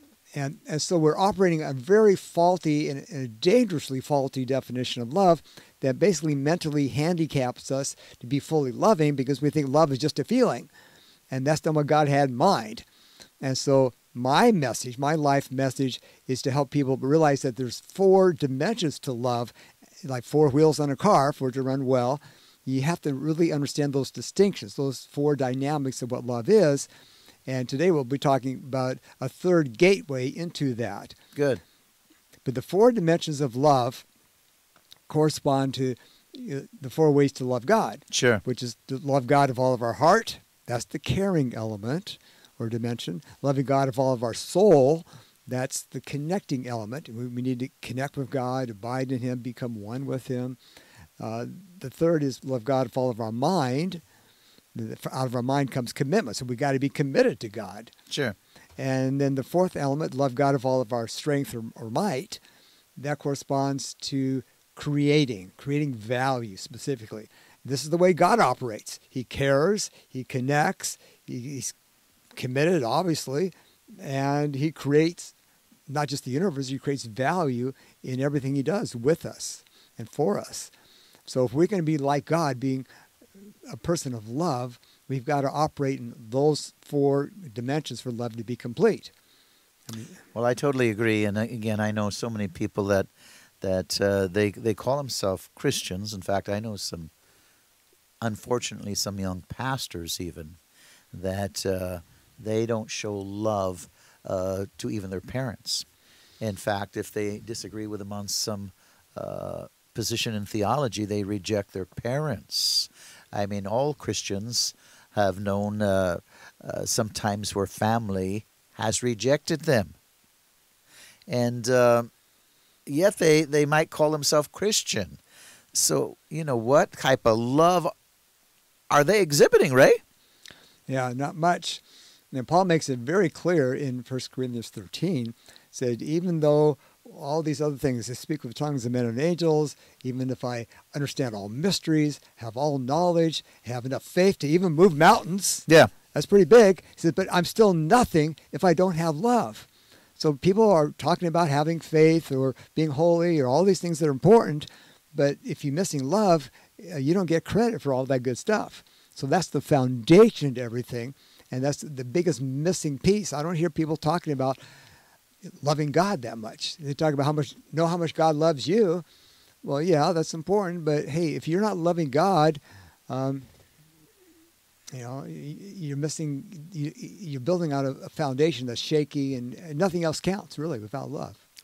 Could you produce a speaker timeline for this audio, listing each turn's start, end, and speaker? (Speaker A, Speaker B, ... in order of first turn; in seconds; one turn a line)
Speaker A: 0.3-10.7
Speaker A: 11.3-12.8
Speaker A: 13.4-26.9
Speaker A: 27.4-31.2
Speaker B: 31.4-31.6
Speaker A: 32.4-34.0
Speaker A: 35.1-50.6
Speaker B: 38.1-38.4
Speaker A: 51.2-54.0
Speaker A: 54.7-57.9
Speaker B: 58.1-58.4
Speaker A: 58.8-62.4
Speaker A: 63.0-71.7
Speaker A: 72.3-75.3
Speaker A: 75.9-80.7
Speaker A: 81.3-82.8
Speaker A: 83.6-89.1
Speaker A: 89.9-90.2
Speaker B: 90.3-93.1
Speaker B: 93.6-97.1
Speaker B: 98.2-100.6
Speaker B: 101.1-105.8
Speaker B: 106.4-119.9
Speaker B: 121.3-122.1
Speaker B: 122.8-125.2
Speaker B: 125.7-127.9
Speaker B: 128.9-130.0
Speaker A: 130.9-164.6
Speaker A: 165.5-169.0
Speaker A: 169.6-173.5
Speaker A: 174.9-181.4